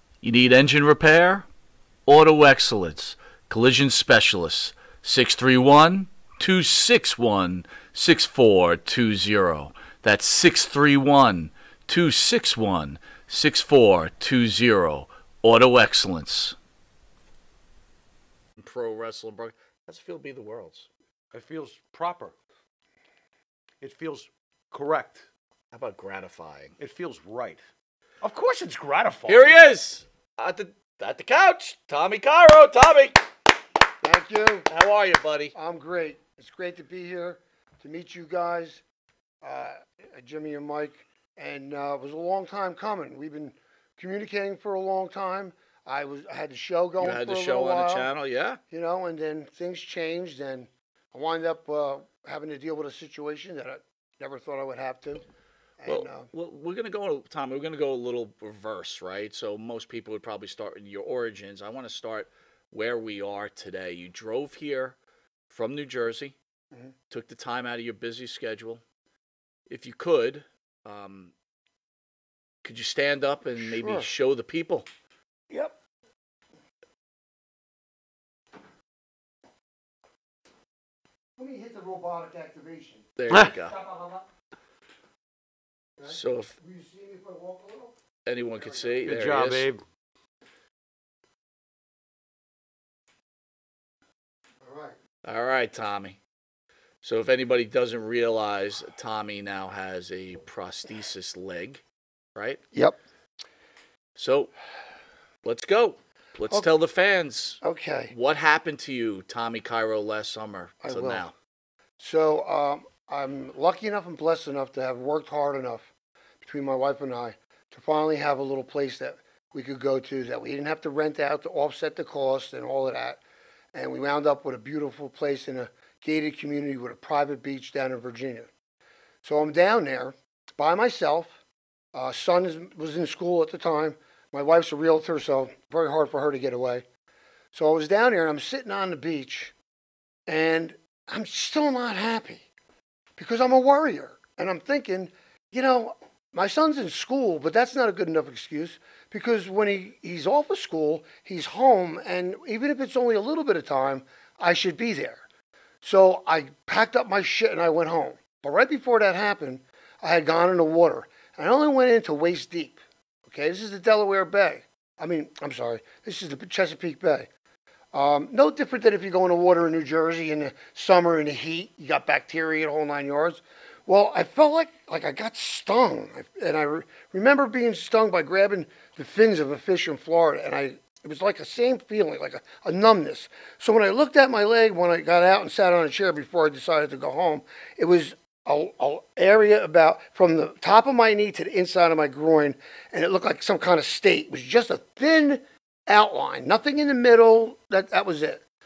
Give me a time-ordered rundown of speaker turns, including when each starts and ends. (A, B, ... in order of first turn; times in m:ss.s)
0:00.2-0:01.5 A
0:02.1-0:16.6 A
0:18.6-0:20.9 A
0:21.3-0:22.4 B
0:23.8-0:25.2 B
0:25.7-0:26.8 A
0:26.8-0:27.6 B
0:28.2-0:29.6 B
0:29.3-0:33.2 A
0:34.0-0:34.7 C
0:34.7-0:35.5 A
0:35.6-0:38.8 C
0:39.4-0:48.1 C
0:47.0-0:48.6 A
0:48.7-0:55.2 C
0:55.8-0:56.3 C
0:55.9-1:05.0 A
1:05.5-1:06.4 A
1:07.1-1:08.8 A
1:09.7-1:11.3 A
1:12.6-1:14.9 A
1:13.6-1:14.1 C
1:15.5-1:15.8 C
1:21.4-1:23.1 C
1:23.2-1:23.8 A
1:23.3-1:23.9 B
1:26.0-1:28.0 C
1:26.1-1:26.6 A
1:28.3-1:29.7 A
1:28.6-1:29.0 C
1:29.0-1:29.8 B
1:34.6-1:35.0 C
1:35.2-1:36.2 A
1:37.0-1:41.8 A
1:42.4-1:42.6 A
1:44.2-1:44.5 A
1:45.4-1:51.3 A
1:47.6-1:48.1 C
1:50.8-1:51.3 C
1:52.0-1:55.9 C
1:56.4-2:03.2 C
2:03.7-2:08.5 C
2:09.2-2:11.4 C
2:11.9-2:16.8 C
2:17.5-2:19.5 C
2:20.3-2:22.5 C
2:23.2-2:35.2 C
2:35.8-2:47.3 C
2:47.9-3:18.4 C